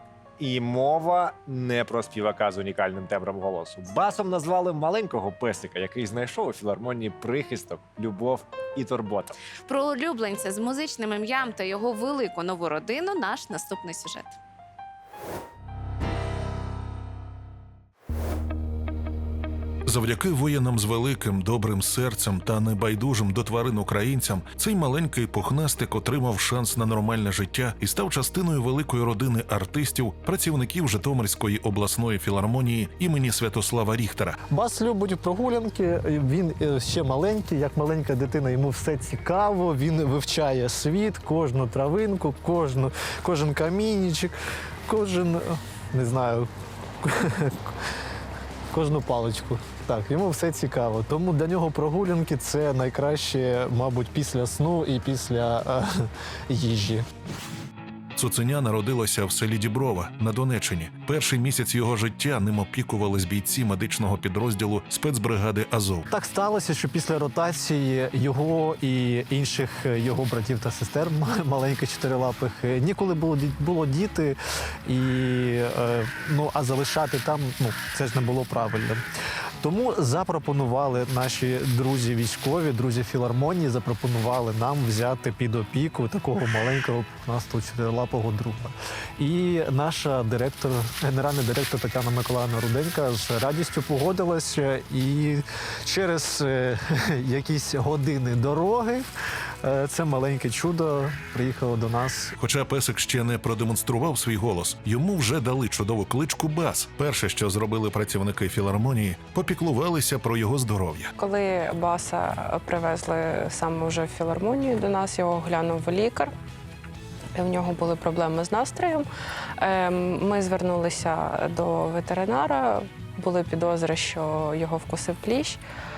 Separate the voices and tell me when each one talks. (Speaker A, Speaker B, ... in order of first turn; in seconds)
Speaker A: 0.4-9.4
Speaker B: 9.7-14.3
Speaker C: 19.9-34.4, 58.2-66.0, 102.4-111.1
Speaker D: 34.5-44.3, 44.9-46.5, 47.0-47.8, 48.7-57.0, 66.1-79.0, 79.6-99.0, 99.6-102.3
Speaker E: 111.2-116.3, 117.4-119.1, 119.6-125.6